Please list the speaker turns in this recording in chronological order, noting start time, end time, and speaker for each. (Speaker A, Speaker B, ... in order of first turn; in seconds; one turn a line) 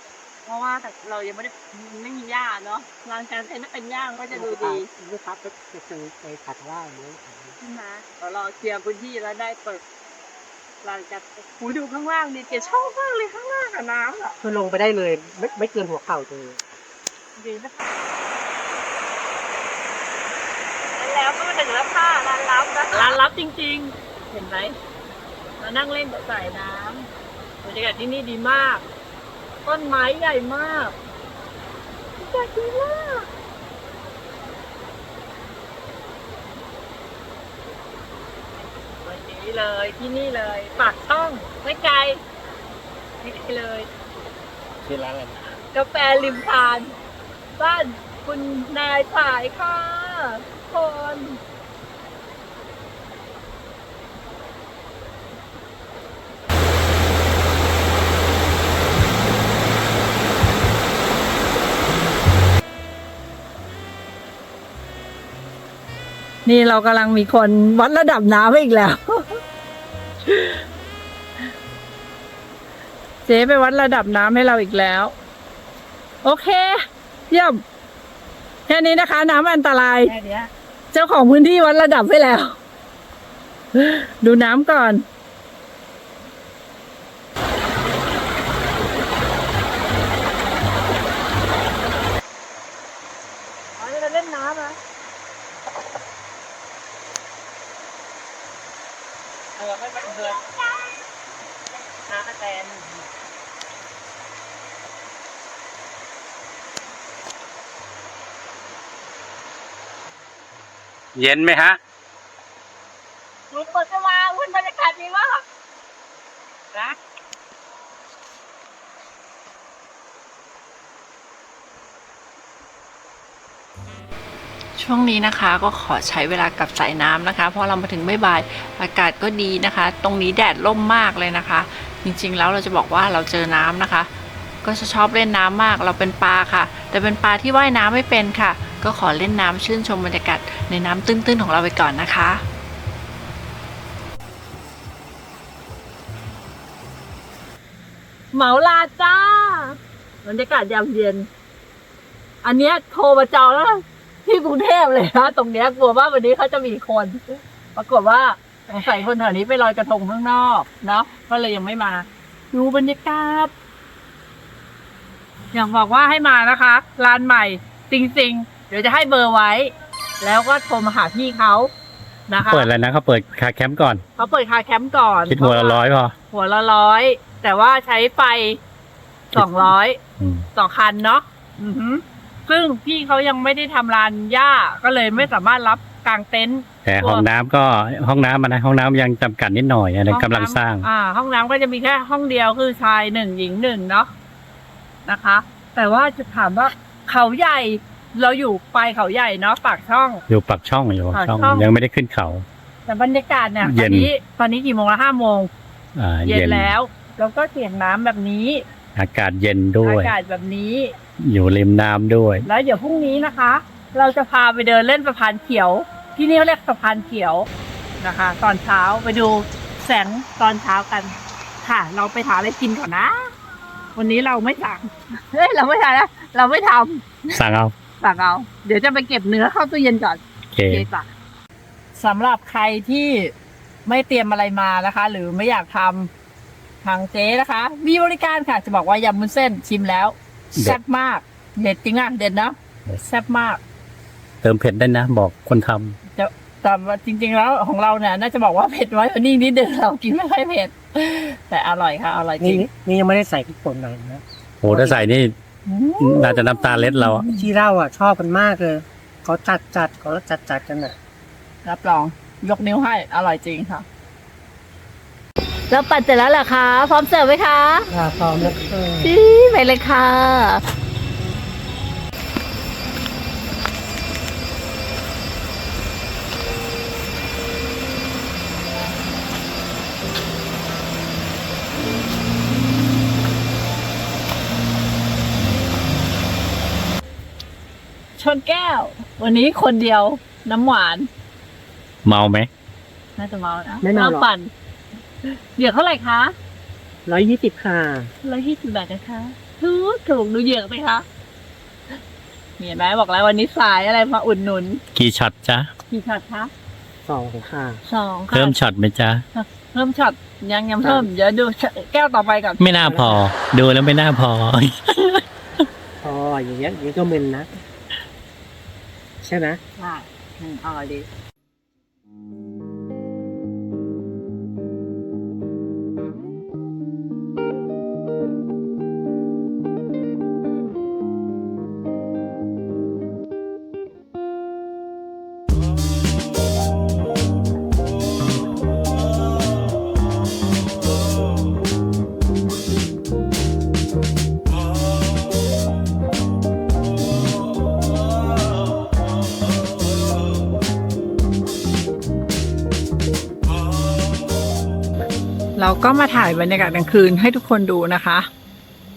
Speaker A: 0.5-4.9
Speaker B: 4.3-7.6
Speaker A: 7.6-9.8
Speaker A: 10.8-14.4
Speaker B: 14.4-16.6
Speaker A: 17.4-17.9
Speaker A: 20.9-24.8
Speaker A: 25.6-27.1
Speaker A: 27.6-28.8
Speaker A: 29.6-31.0
Speaker A: 32.2-33.3
Speaker A: 39.0-42.2
Speaker A: 43.2-43.9
Speaker A: 45.7-47.0
Speaker A: 47.6-51.4
Speaker A: 66.5-69.4
Speaker A: 70.2-70.6
Speaker A: 73.2-75.1
Speaker A: 76.2-77.6
Speaker A: 78.7-80.2
Speaker B: 80.0-80.5
Speaker A: 80.9-82.6
Speaker A: 83.7-85.0
Speaker A: 93.8-94.8
Speaker A: 99.6-100.9
Speaker A: 102.1-102.9
Speaker C: 111.2-111.8
Speaker A: 113.5-115.4
Speaker D: 124.8-134.1
Speaker D: 134.6-142.4
Speaker A: 148.3-151.3
Speaker A: 152.4-163.5
Speaker A: 165.5-171.7
Speaker A: 172.3-172.7
Speaker C: 172.4-174.0
Speaker A: 174.2-178.6
Speaker C: 175.3-176.2
Speaker A: 179.3-180.0
Speaker C: 179.3-180.5
Speaker A: 180.6-187.2
Speaker C: 186.8-190.9
Speaker A: 190.1-194.1
Speaker A: 195.1-200.2
Speaker C: 200.3-202.4
Speaker A: 201.1-201.7
Speaker A: 202.9-205.5
Speaker C: 203.6-204.1
Speaker C: 206.0-206.7
Speaker A: 206.2-208.6
Speaker C: 209.0-210.2
Speaker A: 209.8-210.9
Speaker C: 211.2-212.5
Speaker A: 212.5-217.5
Speaker A: 218.0-223.3
Speaker A: 224.0-227.4
Speaker C: 227.3-227.7
Speaker A: 228.0-231.1
Speaker C: 230.5-230.9
Speaker A: 232.0-233.3
Speaker A: 233.9-236.1
Speaker A: 236.8-243.6
Speaker C: 244.4-246.0
Speaker A: 246.2-252.7
Speaker B: 252.4-255.0
Speaker C: 254.6-255.3
Speaker A: 255.7-257.3
Speaker C: 256.0-257.3
Speaker B: 257.3-261.0
Speaker A: 261.6-263.9
Speaker A: 265.7-267.9
Speaker B: 267.9-269.1
Speaker A: 269.0-270.6
Speaker A: 288.2-291.1
Speaker C: 292.1-292.5
Speaker A: 293.2-294.5
Speaker B: 293.8-294.3
Speaker A: 295.2-296.4
Speaker B: 297.1-298.1
Speaker A: 298.2-301.1
Speaker A: 302.6-304.8
Speaker C: 304.9-305.7
Speaker A: 305.9-306.5
Speaker B: 307.1-307.8
Speaker A: 307.9-308.6
Speaker C: 308.3-309.2
Speaker A: 309.3-312.6
Speaker B: 310.8-311.1
Speaker C: 312.6-315.1
Speaker B: 312.8-313.3
Speaker B: 316.0-317.5
Speaker B: 319.2-319.6
Speaker A: 319.8-321.1
Speaker A: 355.6-358.3